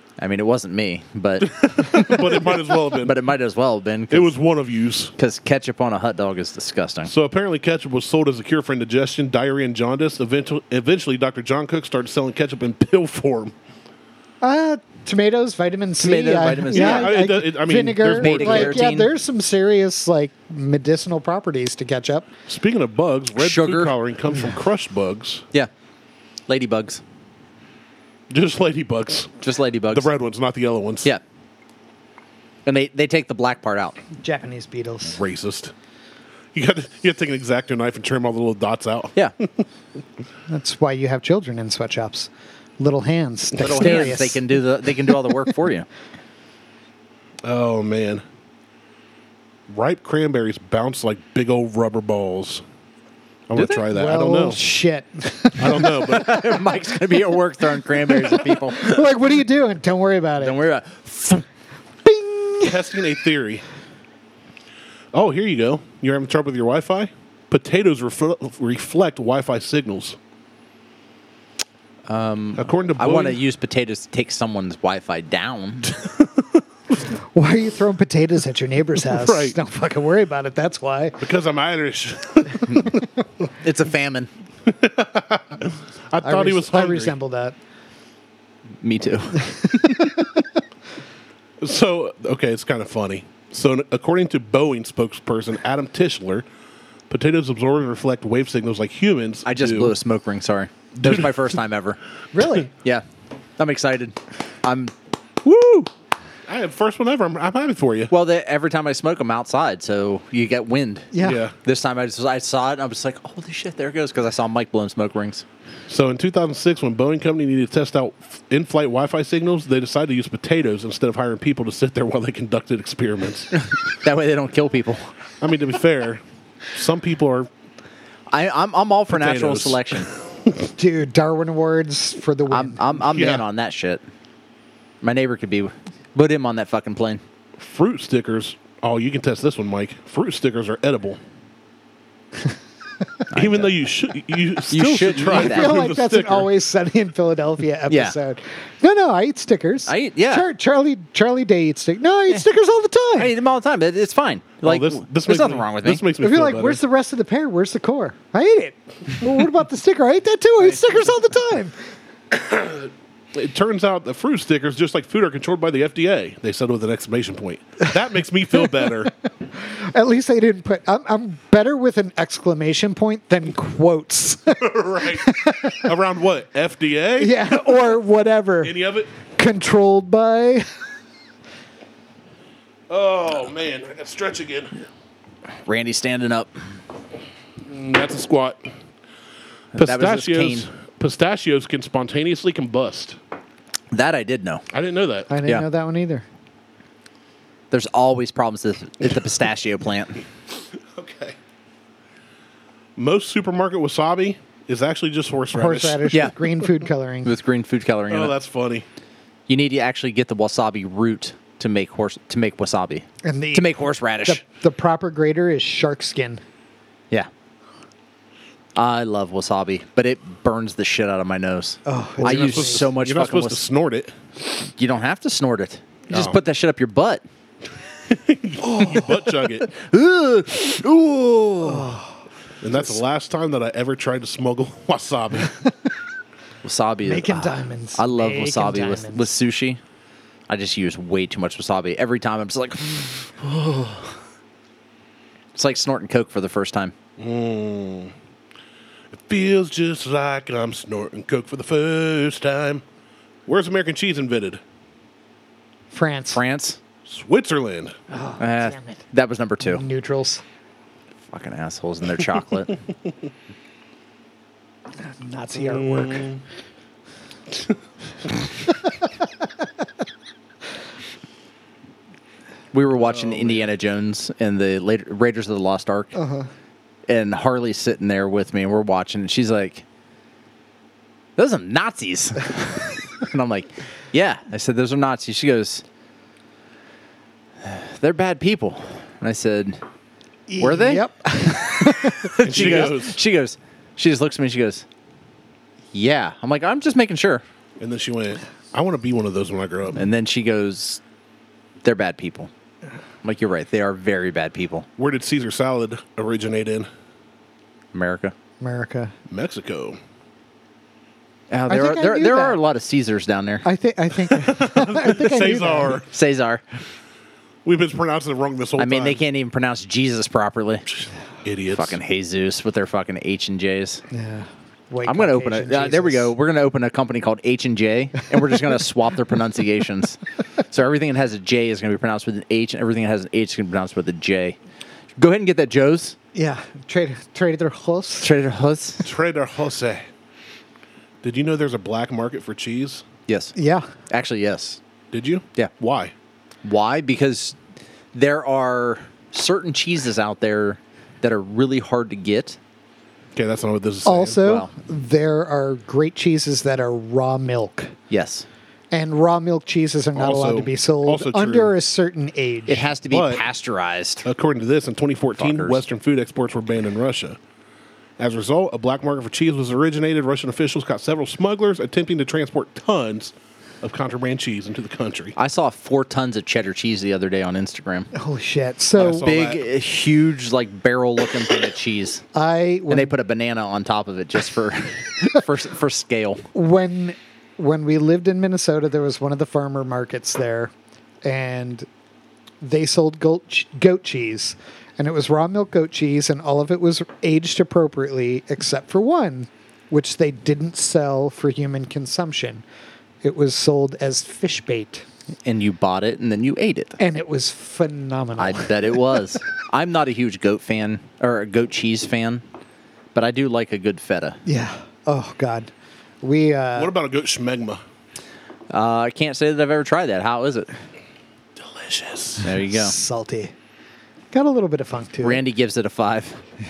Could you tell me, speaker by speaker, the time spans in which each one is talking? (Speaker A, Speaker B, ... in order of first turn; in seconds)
Speaker A: 0.2-4.3, 5.2-7.1, 16.0-17.1, 18.0-19.1, 23.4-23.9, 26.5-27.0, 29.4-30.1, 32.6-34.0, 43.6-45.9, 55.9-59.0, 60.4-61.4, 72.1-76.0, 83.6-84.3, 88.8-89.9, 99.5-102.0, 103.6-104.9, 105.4-105.9, 108.1-115.4, 123.5-125.1, 128.3-130.1, 132.5-134.0, 135.0-137.2, 143.3-143.7, 144.7-145.7, 147.9-148.1, 149.9-150.5, 153.1-156.0, 185.6-186.6, 189.7-190.7, 193.9-194.6, 197.7-200.2, 207.2-208.3, 209.5-214.4, 218.7-223.6, 224.8-227.2, 229.6-232.0, 236.6-239.8, 240.5-244.1, 245.5-246.9, 256.3-256.8, 258.4-259.8, 261.3-262.8, 272.7-276.1, 277.1-279.8, 281.4-285.8, 287.6-289.8, 290.6-294.8, 295.9-297.4, 299.9-301.0, 301.8-302.5, 303.2-304.9, 307.9-308.3, 311.5-313.6, 316.1-316.6, 318.8-320.9, 321.7-324.0, 325.1-334.6, 335.2-336.1, 338.2-339.1, 343.3-343.5, 344.1-344.8, 346.6-347.6, 348.1-352.6, 354.4-354.7, 358.1-358.4, 362.7-364.3, 365.4-365.8, 375.4-378.1, 379.2-382.2, 382.9-386.4, 405.4-407.0, 408.4-412.4, 413.1-414.4, 418.7-420.7, 422.4-422.9, 425.2-426.4
Speaker B: 1.4-3.1, 4.1-5.1, 7.0-13.5, 16.7-18.9, 22.5-25.4, 28.3-29.3, 29.9-31.1, 35.0-35.7, 36.5-39.6, 47.4-48.2, 49.7-52.6, 53.5-54.6, 55.6-56.6, 62.6-63.6, 65.1-70.2, 72.5-73.4, 79.0-79.6, 81.2-83.0, 84.7-87.2, 91.6-96.5, 97.1-100.0, 101.0-101.4, 106.5-108.1, 111.2-111.5, 115.9-123.5, 125.4-127.5, 129.1-130.5, 133.1-133.4, 137.6-141.2, 143.3-146.5, 154.6-156.8, 162.3-169.1, 174.6-177.7, 178.6-179.1, 182.9-184.8, 187.7-188.7, 189.7-193.2, 194.7-195.3, 200.8-201.4, 203.0-206.2, 208.1-208.8, 222.2-224.1, 226.1-226.4, 228.1-229.7, 232.6-235.6, 247.2-248.1, 249.1-252.8, 253.5-254.6, 257.1-257.9, 265.6-266.4, 273.0-273.7, 292.4-293.2, 297.8-300.0, 305.0-306.9, 309.3-310.0, 314.3-316.1, 317.6-319.2, 321.4-322.0, 339.0-340.1, 341.2-343.0, 345.1-346.1, 353.3-354.4, 360.1-361.7, 363.1-363.4, 364.2-367.4, 368.2-375.3, 378.9-379.6, 416.8-417.8, 421.6-422.5
Speaker C: 14.4-22.3, 34.2-35.2, 40.5-44.4, 53.6-56.2, 58.0-60.6, 62.0-62.8, 77.3-81.2, 86.2-87.5, 89.4-90.4, 102.3-102.7, 111.1-111.4, 130.8-133.0, 145.3-153.3, 156.2-161.7, 168.6-168.9, 169.5-175.9, 177.2-180.7, 195.3-196.2, 205.5-207.3, 213.2-213.7, 214.2-216.4, 221.8-222.8, 228.6-229.1, 231.6-232.1, 237.0-239.3, 255.9-256.4, 258.1-259.0, 259.6-260.4, 265.0-266.3, 276.1-276.5, 290.5-292.9, 308.6-309.1, 311.7-312.6, 313.6-316.0, 324.1-326.3, 336.3-338.3, 343.6-343.9, 354.0-357.9, 358.9-362.9, 378.1-379.3, 382.3-383.1, 386.5-390.7, 391.2-391.9, 392.6-402.6, 403.2-405.0, 407.0-409.3, 414.4-415.7, 416.2-416.9, 422.7-423.5, 424.3-425.4